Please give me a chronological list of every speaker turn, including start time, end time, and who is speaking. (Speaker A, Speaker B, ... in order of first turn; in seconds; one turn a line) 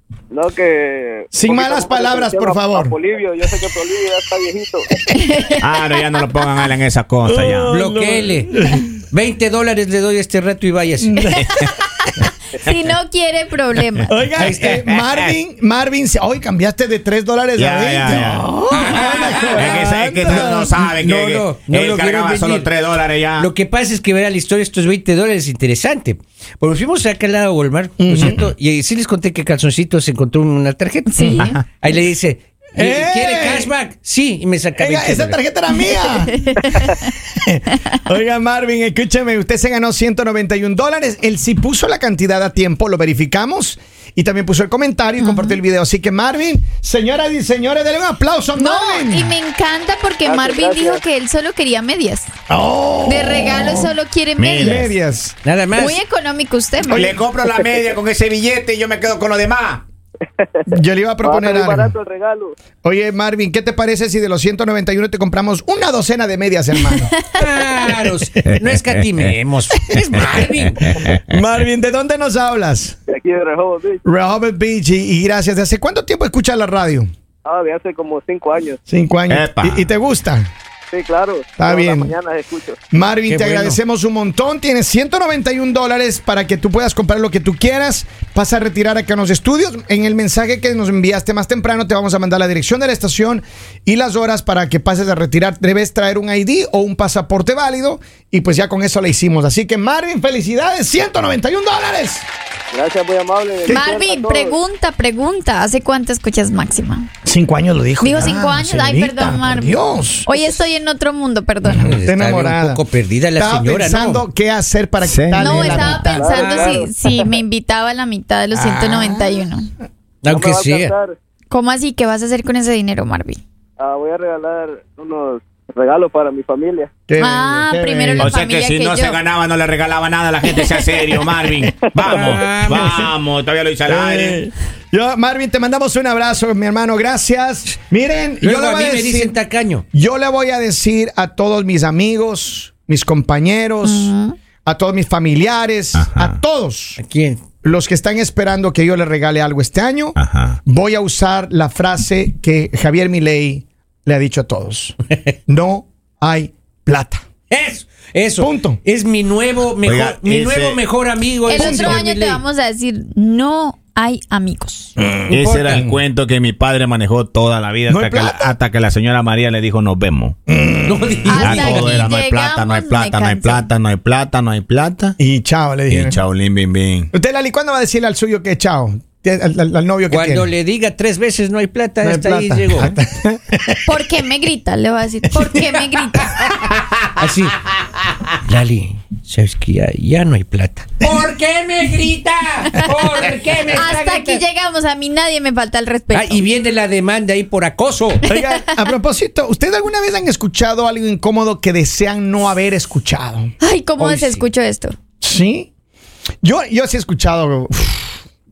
Speaker A: 0.3-4.9
Speaker B: 1.3-3.0
Speaker C: 5.1-6.0
Speaker D: 5.6-7.8
Speaker B: 7.2-8.9
Speaker E: 7.7-11.2
Speaker B: 11.0-11.5
Speaker D: 11.4-11.7
Speaker C: 11.5-14.2
Speaker B: 14.1-20.8
Speaker D: 14.4-15.3
Speaker E: 14.4-14.8
Speaker D: 17.6-23.5
Speaker E: 18.7-22.7
Speaker E: 23.4-35.4
Speaker B: 28.0-28.5
Speaker C: 31.1-31.6
Speaker B: 31.2-31.6
Speaker B: 32.8-33.7
Speaker B: 34.8-49.3
Speaker C: 36.0-37.1
Speaker C: 45.2-45.6
Speaker C: 48.6-52.3
Speaker A: 50.2-51.0
Speaker B: 52.5-53.9
Speaker C: 53.0-54.9
Speaker D: 54.4-54.9
Speaker B: 54.6-55.4
Speaker E: 55.5-56.0
Speaker C: 55.7-57.1
Speaker B: 56.9-57.2
Speaker D: 56.9-59.8
Speaker B: 60.7-62.0
Speaker A: 61.2-62.6
Speaker B: 62.8-67.1
Speaker E: 67.3-71.1
Speaker D: 68.5-69.0
Speaker D: 69.9-71.4
Speaker B: 71.1-73.0
Speaker A: 73.1-74.0
Speaker B: 74.0-77.1
Speaker A: 77.5-78.8
Speaker B: 78.9-80.5
Speaker D: 79.3-79.9
Speaker A: 80.9-82.8
Speaker B: 81.6-82.1
Speaker B: 82.9-102.3
Speaker E: 83.3-83.8
Speaker A: 102.7-104.6
Speaker C: 103.7-107.1
Speaker B: 107.2-110.7
Speaker C: 108.0-111.9
Speaker B: 111.7-116.4
Speaker E: 111.8-114.2
Speaker D: 115.0-115.7
Speaker C: 115.4-119.7
Speaker A: 115.8-117.3
Speaker E: 116.3-116.8
Speaker B: 118.5-119.5
Speaker E: 120.2-121.0
Speaker A: 120.2-121.2
Speaker C: 121.5-123.4
Speaker A: 123.8-126.9
Speaker B: 127.1-128.3
Speaker C: 127.2-129.2
Speaker D: 128.2-134.5
Speaker E: 132.0-133.1
Speaker B: 133.9-139.3
Speaker E: 138.4-139.8
Speaker B: 139.9-144.1
Speaker C: 143.8-144.3
Speaker B: 144.7-147.0
Speaker D: 146.0-146.4
Speaker E: 147.0-147.4
Speaker B: 147.6-157.2
Speaker D: 150.2-150.6
Speaker E: 157.5-162.4
Speaker B: 158.4-158.8
Speaker D: 159.8-160.8
Speaker C: 161.5-164.9
Speaker B: 161.5-162.0
Speaker B: 165.0-166.0
Speaker D: 165.3-170.4
Speaker B: 167.9-168.6
Speaker B: 170.5-171.0
Speaker E: 170.8-172.0
Speaker C: 171.2-173.7
Speaker D: 171.4-175.2
Speaker B: 175.2-176.2
Speaker D: 175.9-177.1
Speaker B: 177.1-180.5
Speaker E: 180.1-182.9
Speaker B: 182.0-184.0
Speaker C: 183.9-186.3
Speaker E: 185.5-187.7
Speaker E: 188.3-194.4
Speaker C: 193.7-196.4
Speaker E: 196.1-198.2
Speaker B: 198.3-203.5
Speaker C: 203.6-204.9
Speaker E: 204.0-204.4
Speaker B: 205.2-205.7
Speaker B: 206.4-208.2